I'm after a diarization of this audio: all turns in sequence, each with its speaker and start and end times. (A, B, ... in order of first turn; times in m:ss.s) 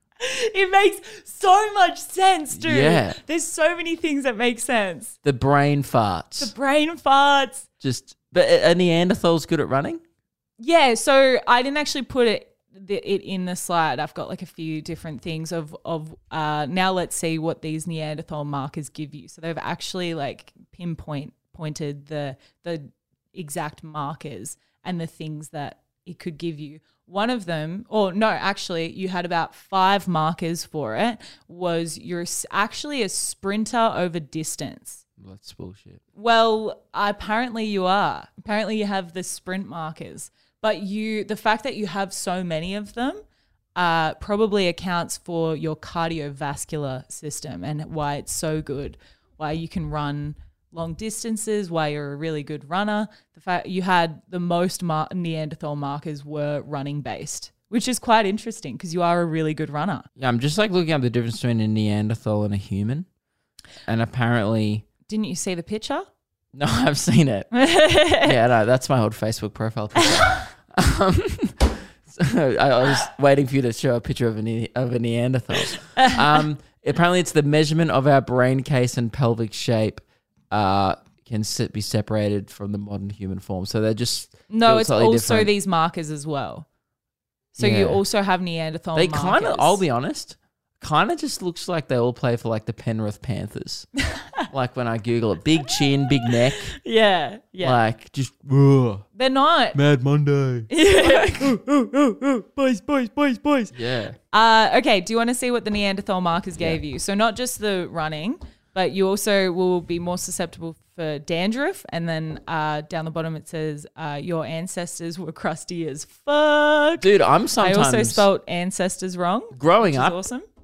0:00.2-0:05.2 A
0:02.5-0:03.2 B
0:05.2-0:06.5 B
0:06.4-0:07.7 A
0:07.8-0:10.0 B
0:10.6-0:35.0 A
0:35.2-0:36.0 B
0:36.1-0:43.2 A
0:43.8-1:00.1 A
1:00.2-1:03.1 B
1:03.8-1:04.8 B
1:05.1-1:06.0 A
1:06.5-1:07.5 B
1:07.5-1:08.4 A
1:08.2-1:25.5 B
1:10.0-1:10.5 A
1:15.7-1:16.4 A
1:24.5-1:26.6 A
1:27.5-1:29.8 A
1:27.6-1:28.0 B
1:28.9-1:33.9 B
1:34.1-1:34.5 A
1:34.5-1:36.7 B
1:36.2-1:37.8 A
1:37.6-1:39.0 B
1:39.1-1:39.8 A
1:39.7-1:41.5 B
1:40.7-1:43.7 A
1:43.7-1:44.2 B
1:44.3-2:00.4 A
1:57.0-1:58.2 B
1:59.5-2:00.2 B